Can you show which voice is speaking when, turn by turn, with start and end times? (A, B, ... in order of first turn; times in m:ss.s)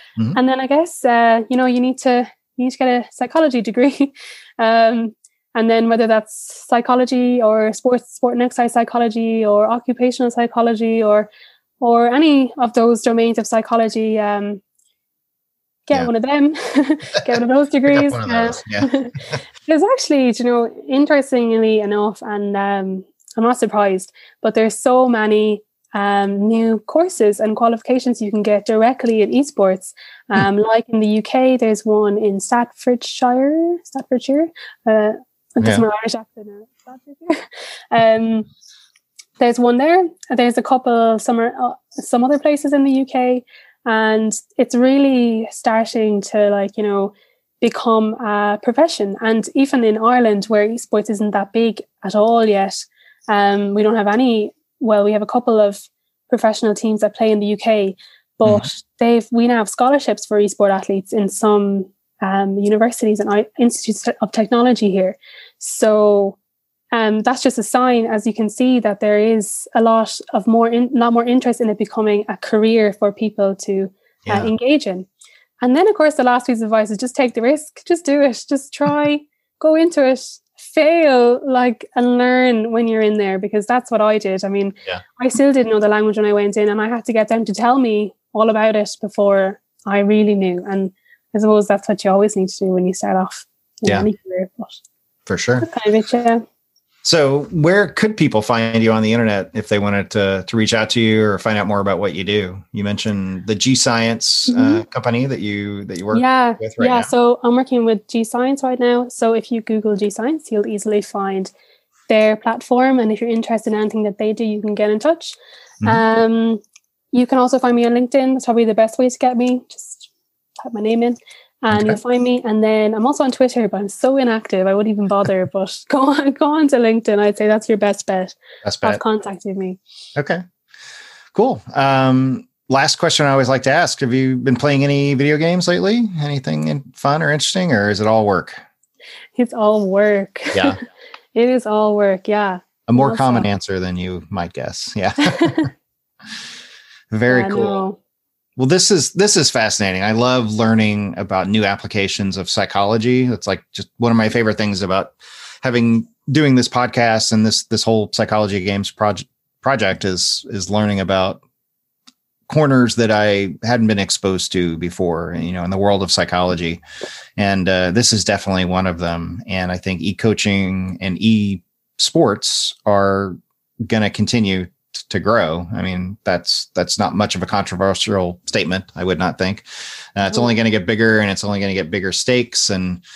0:00.3-0:11.3 A
0:11.8-0:14.6 A
0:15.9-0:38.5 A
0:17.9-0:19.4 B
0:35.6-0:35.9 B
0:39.4-1:06.4 A
1:06.9-1:15.1 A
1:14.3-1:14.5 B
1:15.6-1:34.8 A
1:35.3-1:35.7 B
1:35.6-1:36.4 A
1:37.0-1:47.1 B
1:44.5-1:44.8 A
1:46.1-1:51.5 A
1:52.1-1:56.6 A
1:57.1-2:00.1 A
2:00.6-2:09.8 A
2:01.7-2:02.0 B
2:08.6-2:09.0 B
2:10.2-2:10.4 B
2:11.3-2:18.6 B
2:19.4-2:20.8 A
2:21.4-2:23.5 A
2:22.9-2:25.7 B
2:25.4-2:25.7 A
2:27.1-2:27.8 B
2:27.3-2:28.0 A
2:28.6-2:41.4 B
2:42.5-2:46.8 B
2:47.4-3:03.0 B